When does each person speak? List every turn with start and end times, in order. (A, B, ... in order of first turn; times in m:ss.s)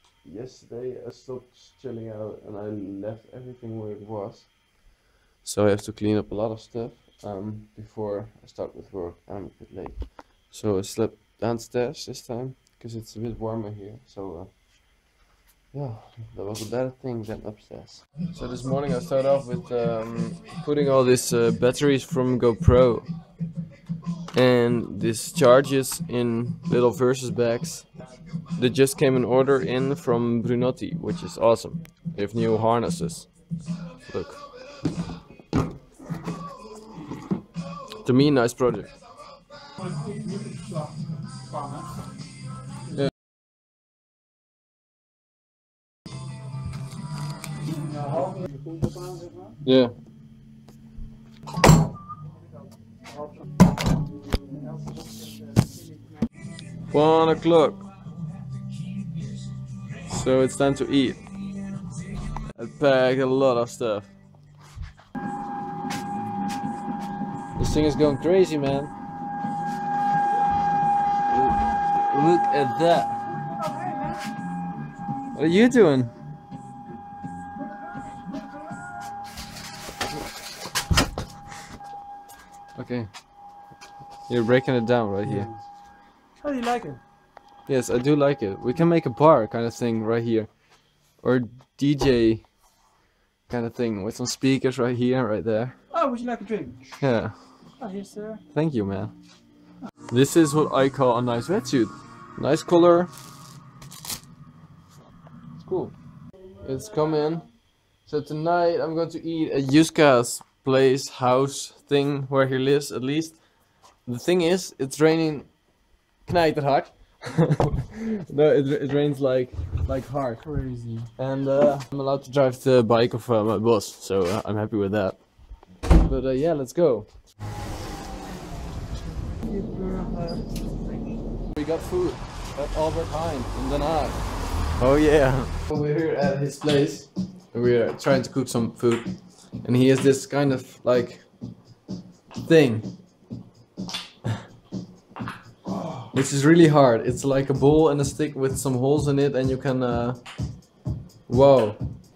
0:00.2-0:04.6 A
0:05.4-0:14.6 A
0:15.7-0:23.0 A
0:24.3-0:27.9 A
0:28.5-0:33.3 A
0:34.0-0:34.4 A
0:38.0-0:38.9 A
0:47.9-0:49.5 B
0:49.6-0:49.9 A
0:56.9-0:57.8 A
1:00.1-1:01.2 A
1:02.5-1:04.1 A
1:07.6-1:08.9 A
1:11.3-1:13.2 A
1:15.3-1:16.1 A
1:22.8-1:23.1 A
1:24.3-1:25.5 A
1:25.2-1:25.6 B
1:26.4-1:27.0 B
1:27.7-1:30.6 A
1:31.1-1:32.5 A
1:33.5-1:35.8 A
1:35.9-1:37.0 B
1:37.0-1:37.4 A
1:37.8-1:38.4 B
1:38.5-1:39.1 A
1:40.1-1:43.1 A
1:45.6-1:45.9 A
1:46.6-1:53.4 A
1:54.0-1:55.6 A
1:56.2-2:00.4 A
2:00.4-2:01.1 B
2:01.2-2:05.3 A
2:05.9-2:07.1 A
2:09.5-2:10.4 A
2:11.5-2:19.1 A
2:19.6-2:21.3 A
2:22.4-2:22.9 A
2:26.1-2:30.2 A
2:31.3-2:31.8 A